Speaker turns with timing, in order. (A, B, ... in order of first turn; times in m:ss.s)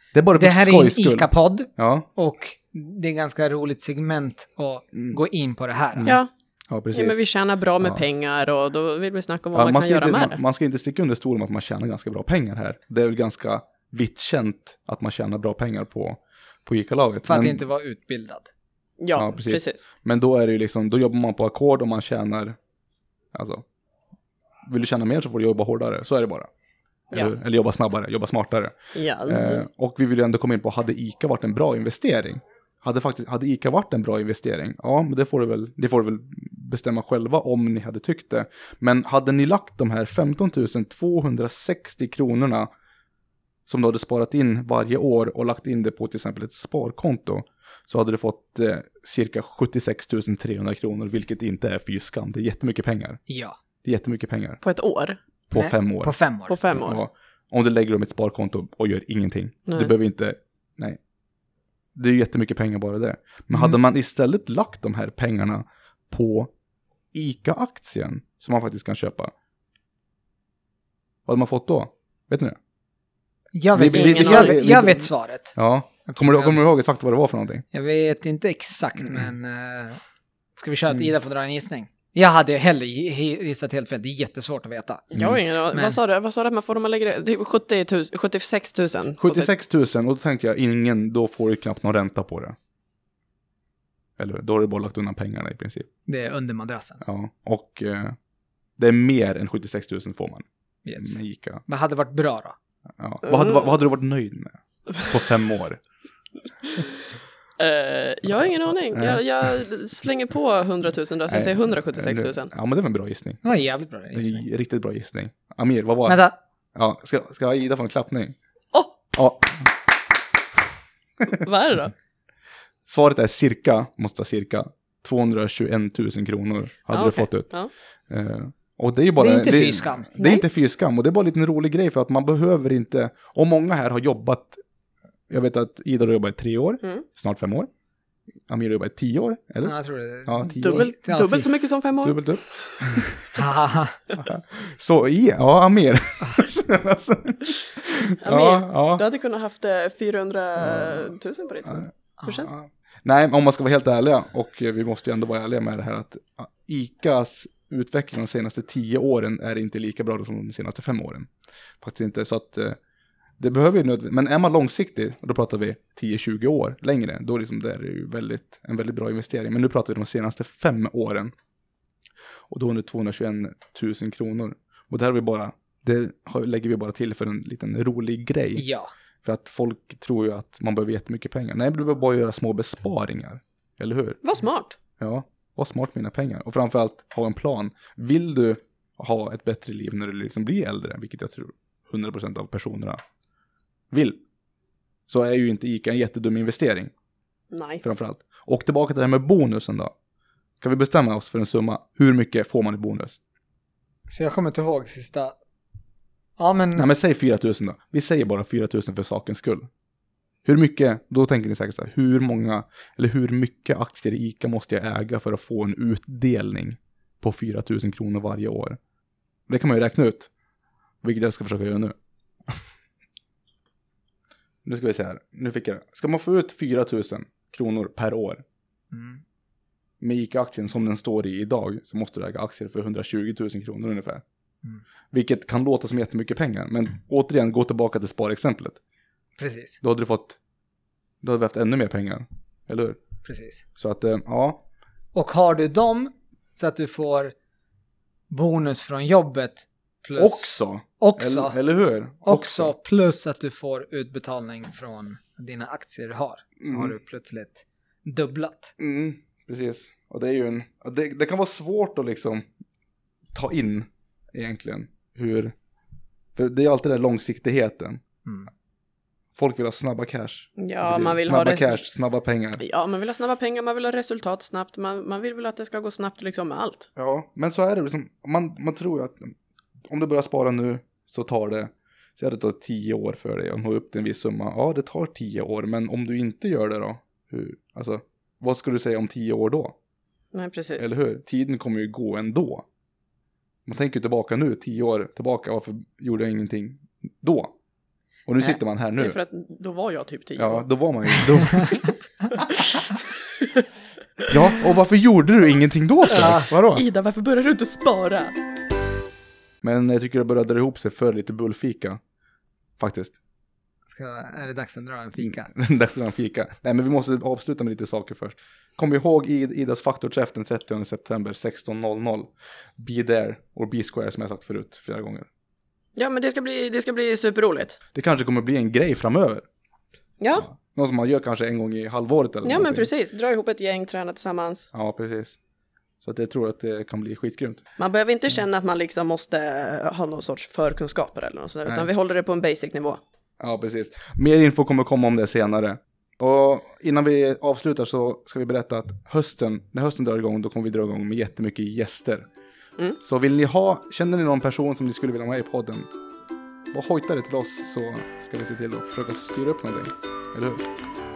0:00.1-0:02.1 A
0:00.4-0:06.2 B
0:05.9-0:07.2 A
0:06.9-0:10.4 C
0:09.5-0:17.6 A
0:17.2-0:18.5 B
0:19.0-0:19.8 C
0:19.1-0:22.6 A
0:23.3-0:23.6 A
0:24.6-0:26.5 A
0:27.1-0:27.4 C
0:27.1-0:42.7 A
0:28.9-0:29.6 C
0:43.7-0:53.2 A
0:53.3-0:53.6 B
0:53.8-0:54.6 A
0:54.6-0:55.2 C
0:55.5-0:56.1 A
0:55.5-0:56.6 B
0:56.5-0:57.0 C
0:56.7-1:01.0 A
0:59.7-0:59.9 C
1:01.9-1:06.5 A
1:03.5-1:03.8 B
1:07.1-1:09.3 A
1:11.2-1:12.6 A
1:13.5-1:16.6 B
1:13.7-1:17.6 A
1:13.9-1:14.6 C
1:17.7-1:20.0 B
1:20.6-1:26.0 B
1:25.1-1:29.5 C
1:29.2-1:32.5 A
1:34.2-1:35.9 A
1:36.1-1:37.0 B
1:37.0-1:38.2 A
1:38.8-1:41.6 A
1:40.8-1:42.6 B
1:43.0-1:45.8 A
1:43.2-1:43.6 C
1:47.6-1:52.5 C
1:48.9-1:49.2 A
1:51.3-1:53.4 A
1:53.4-1:54.5 B
1:54.1-1:56.2 A
1:56.1-1:56.3 B
1:56.7-1:58.3 A
1:59.1-1:59.7 A
2:01.3-2:01.9 C
2:02.8-2:07.5 A
2:06.9-2:07.7 C
2:08.1-2:14.6 A
2:09.2-2:10.1 B
2:10.2-2:10.4 C
2:15.3-2:17.7 A
2:18.5-2:19.7 A
2:19.6-2:21.5 B
2:20.2-2:20.9 A
2:20.6-2:23.0 C
2:22.0-2:23.4 A
2:23.4-2:24.0 B
2:24.2-2:29.0 A
2:28.2-2:32.5 C
2:30.6-2:31.1 A
2:31.6-2:41.3 A
2:41.8-2:42.8 A
2:43.4-2:51.3 A
2:52.5-2:58.6 A
2:58.6-2:58.9 B
2:59.2-3:04.2 A
3:04.2-3:04.8 C
3:05.0-3:13.0 A
3:13.9-3:14.2 A
3:15.1-3:16.9 A
3:17.5-3:17.8 C
3:17.8-3:19.9 A
3:20.6-3:23.2 A
3:24.1-3:25.3 B
3:26.4-3:26.9 B
3:26.8-3:29.7 A
3:30.4-3:38.8 A
3:39.5-3:40.3 A
3:41.0-3:41.9 A
3:44.6-3:48.4 A
3:48.9-3:49.2 B
3:50.0-3:54.2 A
3:55.1-3:58.8 A
3:59.4-3:59.8 B
3:59.8-4:00.4 A
4:01.2-4:03.0 A
4:03.2-4:03.6 B
4:03.8-4:04.6 A
4:05.1-4:07.3 B
4:08.3-4:11.6 B
4:10.2-4:12.7 A
4:12.2-4:18.7 B
4:16.6-4:16.9 A
4:18.8-4:22.4 A
4:23.3-4:25.5 A
4:26.4-4:28.0 A
4:29.3-4:32.6 A
4:30.6-4:31.8 C
4:32.6-4:36.9 C
4:37.0-4:39.3 A
4:39.9-4:49.7 A
4:50.3-4:50.9 C
4:50.8-4:52.6 A
4:53.7-4:57.5 A
4:58.2-4:59.2 A
4:59.0-5:00.6 C
5:00.4-5:01.8 A
5:02.4-5:03.6 C
5:04.3-5:06.8 A
5:06.1-5:06.4 B
5:06.7-5:08.4 C
5:09.6-5:12.0 A
5:12.8-5:13.2 A
5:13.9-5:15.5 B
5:15.2-5:25.3 A
5:26.0-5:27.8 C
5:27.9-5:29.4 A
5:30.2-5:30.4 C
5:30.3-5:32.9 A
5:32.4-5:34.7 C
5:34.7-5:35.4 A
5:36.0-5:37.6 A
5:37.8-5:43.0 C
5:43.4-5:52.2 A
5:53.0-5:55.9 A
5:56.7-6:00.6 A